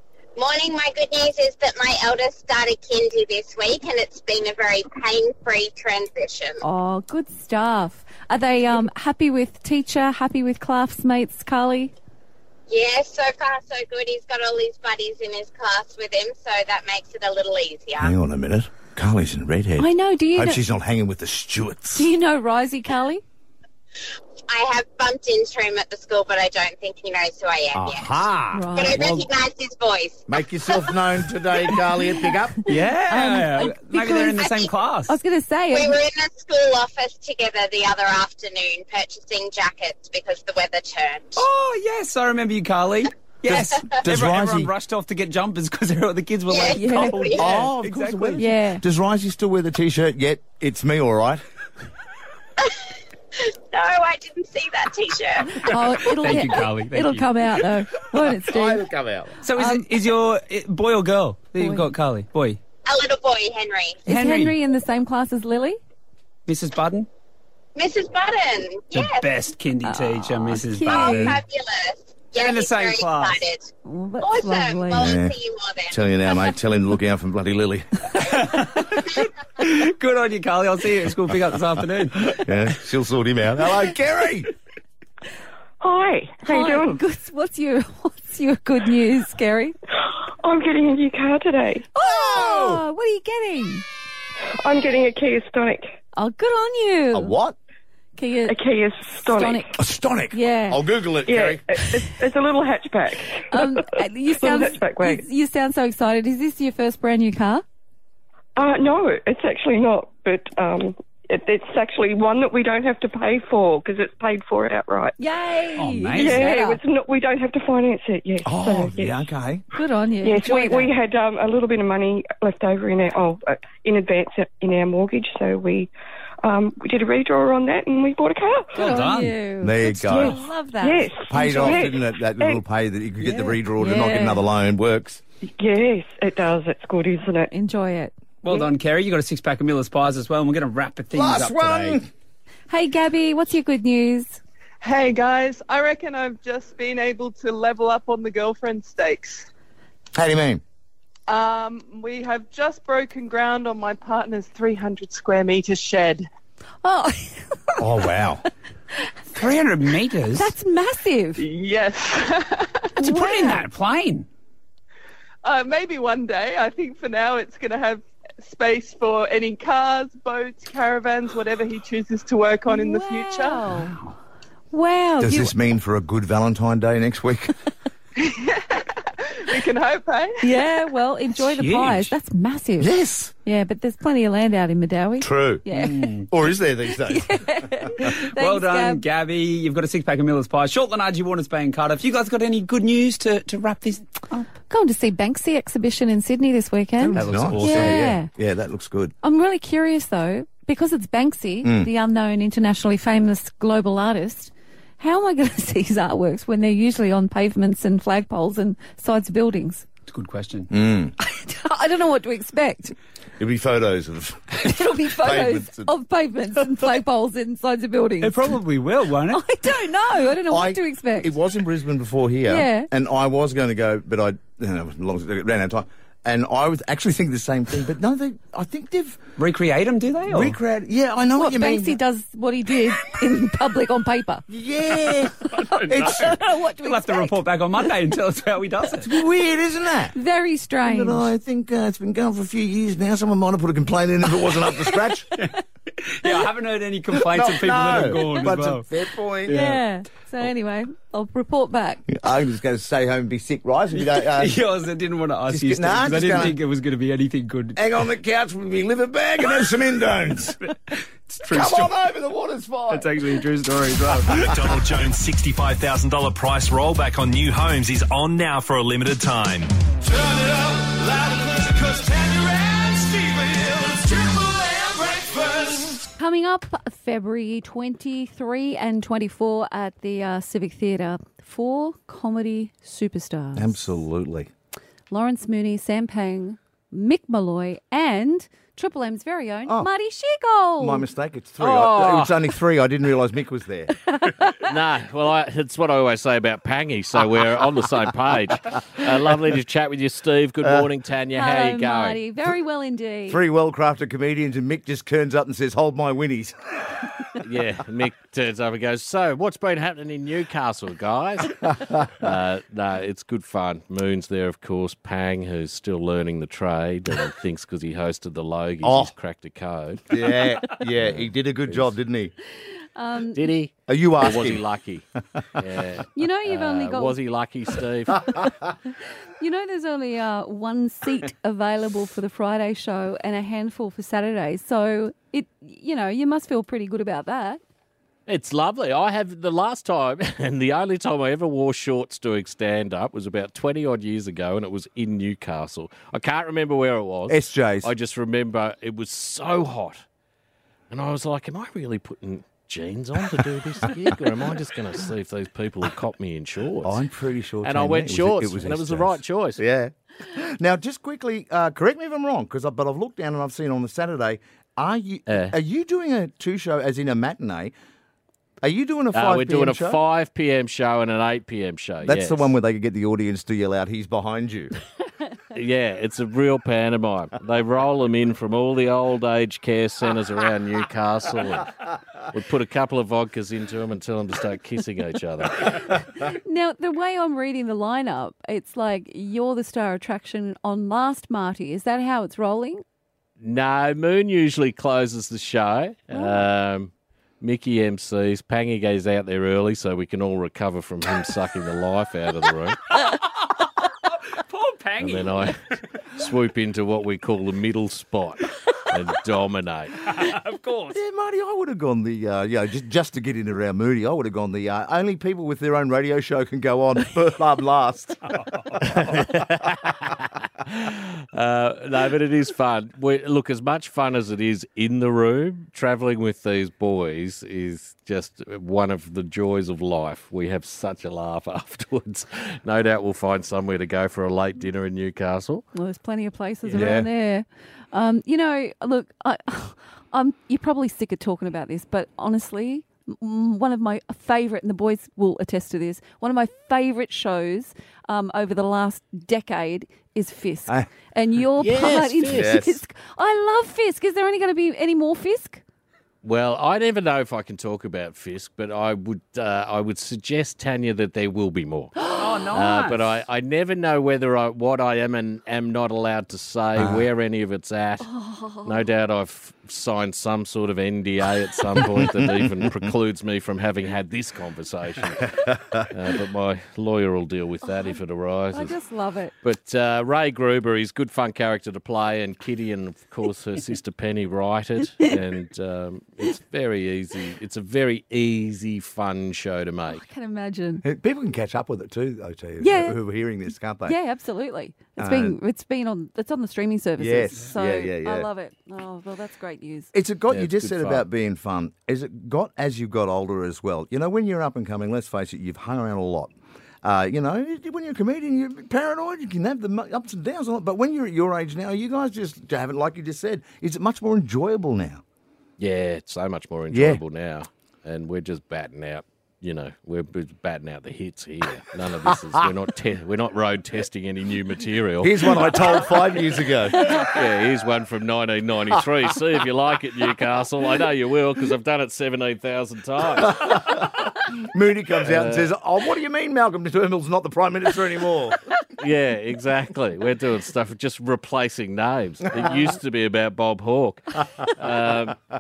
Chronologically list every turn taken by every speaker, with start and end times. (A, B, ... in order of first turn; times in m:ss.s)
0:00.4-0:06.6 A
0:06.6-0:11.9 B
0:12.7-0:18.1 A
0:18.0-0:22.1 C
0:19.8-0:20.6 B
0:22.0-0:23.2 B
0:24.5-0:28.2 A
0:27.8-0:28.6 C
0:28.5-0:29.2 B
0:28.7-0:30.2 A
0:30.3-0:32.6 C
0:32.7-0:35.2 D
0:33.1-0:36.0 B
0:35.7-0:41.4 A
0:41.4-0:48.4 D
0:44.0-0:44.7 C
0:46.5-0:47.5 A
0:46.7-0:47.3 B
0:47.3-0:51.4 C
0:48.4-0:48.8 B
0:53.7-0:55.6 A
0:55.6-0:58.9 B
0:56.0-0:57.3 D
0:58.5-0:59.3 C
0:59.4-1:02.6 D
0:59.6-0:59.9 B
1:01.6-1:01.9 B
1:02.8-1:04.0 A
1:04.1-1:04.6 D
1:04.1-1:05.8 B
1:06.5-1:07.1 D
1:07.8-1:09.3 A
1:08.9-1:11.4 D
1:09.8-1:11.4 B
1:10.8-1:16.0 A
1:12.3-1:13.4 D
1:13.8-1:15.2 B
1:14.9-1:15.3 C
1:15.9-1:17.9 C
1:18.2-1:22.4 D
1:22.4-1:24.5 C
1:25.8-1:27.0 E
1:26.4-1:29.8 B
1:30.3-1:31.9 E
1:31.9-1:33.8 B
1:32.0-1:32.8 C
1:34.6-1:35.9 E
1:36.1-1:37.3 B
1:37.1-1:37.6 C
1:38.2-1:39.7 B
1:38.5-1:39.7 E
1:39.8-1:41.6 C
1:40.3-1:40.8 B
1:41.3-1:45.2 E
1:43.5-1:47.6 B
1:48.6-1:55.2 E
1:55.2-1:56.8 B
1:55.8-1:56.5 D
1:56.2-1:59.2 E
1:58.4-1:59.6 C
1:59.7-2:00.9 B
2:00.2-2:05.9 E
2:06.4-2:08.8 E
2:08.8-2:09.4 D
2:08.8-2:11.9 B
2:09.6-2:10.4 C
2:10.8-2:12.6 E
2:11.3-2:15.2 C
2:13.3-2:14.4 B
2:15.6-2:17.5 E
2:17.5-2:18.1 B
2:18.4-2:22.0 D
2:21.1-2:22.1 C
2:22.7-2:24.4 B
2:24.8-2:29.5 F
2:30.1-2:30.6 C
2:31.3-2:36.3 F
2:36.8-2:37.8 B
2:37.8-2:38.4 C
2:39.3-2:40.5 D
2:40.3-2:41.4 B
2:41.4-2:42.7 F
2:43.0-2:44.3 D
2:43.0-2:43.7 B
2:45.4-2:53.7 F
2:52.7-2:54.0 B
2:54.7-2:55.5 B
2:55.2-2:57.5 C
2:58.3-2:58.8 F
2:59.5-3:00.4 F
3:00.4-3:02.9 B
3:01.4-3:02.1 D
3:02.8-3:03.3 C
3:03.4-3:06.1 B
3:05.2-3:05.6 C
3:05.7-3:06.3 D
3:06.3-3:07.4 C
3:07.1-3:09.0 B
3:08.4-3:14.0 D
3:14.7-3:18.3 B
3:17.0-3:19.1 C
3:17.1-3:18.1 D
3:19.2-3:29.9 B
3:21.6-3:21.9 C
3:30.1-3:30.7 D
3:30.7-3:31.1 C
3:31.2-3:32.9 B
3:33.4-3:35.9 C
3:34.6-3:38.5 B
3:38.2-3:39.4 D
3:39.3-3:41.4 B
3:40.5-3:49.2 C
3:42.5-3:42.9 B
3:49.4-3:50.6 D
3:50.3-3:52.0 C
3:51.4-3:54.4 B
3:54.5-3:56.4 C
3:55.6-3:59.1 D
3:55.9-3:57.4 B
3:59.0-4:00.1 C
4:00.1-4:01.3 B
4:00.8-4:05.3 C
4:06.1-4:08.9 D
4:07.3-4:09.6 C
4:09.5-4:09.8 D
4:09.5-4:12.0 B
4:12.1-4:14.6 C
4:13.9-4:17.8 D
4:15.5-4:16.6 C
4:17.8-4:20.6 C
4:21.3-4:22.0 D
4:21.5-4:23.2 C
4:22.9-4:24.5 D
4:24.4-4:29.7 G
4:30.0-4:36.1 H
4:36.2-4:43.8 B
4:43.6-4:44.5 C
4:45.1-4:51.1 B
4:50.8-4:53.9 C
4:51.6-4:52.5 I
4:54.1-4:54.6 B
4:54.6-5:02.2 I
5:01.4-5:03.4 B
5:03.3-5:06.6 C
5:07.4-5:11.5 I
5:12.2-5:20.0 I
5:18.8-5:19.1 C
5:20.1-5:22.3 C
5:21.0-5:22.0 I
5:23.0-5:23.5 B
5:23.3-5:25.1 I
5:23.9-5:24.6 C
5:25.6-5:28.2 I
5:26.1-5:27.2 B
5:29.4-5:37.6 B
5:38.3-5:50.0 I
5:47.3-5:47.9 C
5:50.9-5:57.0 I
5:56.8-6:07.7 C
5:57.6-5:59.6 I
6:05.3-6:05.5 I
6:08.6-6:10.0 C
6:09.1-6:12.5 I
6:12.0-6:14.7 C
6:15.6-6:21.7 I
6:22.3-6:25.9 I
6:26.0-6:32.8 B
6:33.4-6:42.8 I
6:36.1-6:36.4 B
6:44.4-6:45.5 D
6:45.0-6:45.6 I
6:46.2-6:49.9 I
6:50.0-6:51.0 D
6:50.9-6:58.2 C
6:58.9-7:00.1 I
7:00.7-7:15.7 I
7:15.7-7:35.6 B
7:16.7-7:17.1 C
7:31.6-7:32.8 C
7:36.2-7:48.1 I
7:42.2-7:43.2 D
7:48.0-7:48.9 B
7:48.6-7:55.4 I
7:55.5-7:55.8 C
7:55.9-7:58.8 I
7:57.7-7:58.0 B
7:58.5-7:59.3 B
7:59.4-8:10.0 I
8:09.9-8:10.8 B
8:10.8-8:14.0 C
8:12.6-8:13.0 B
8:13.8-8:19.9 B
8:15.0-8:15.4 C
8:17.0-8:18.3 C
8:19.9-8:35.0 C
8:20.3-8:21.1 I
8:35.6-8:46.2 I
8:36.7-8:37.0 C
8:45.0-8:47.1 C
8:47.0-8:53.7 I
8:53.2-8:53.9 C
8:54.4-8:58.4 C
8:55.0-8:55.5 I
8:58.8-9:05.2 I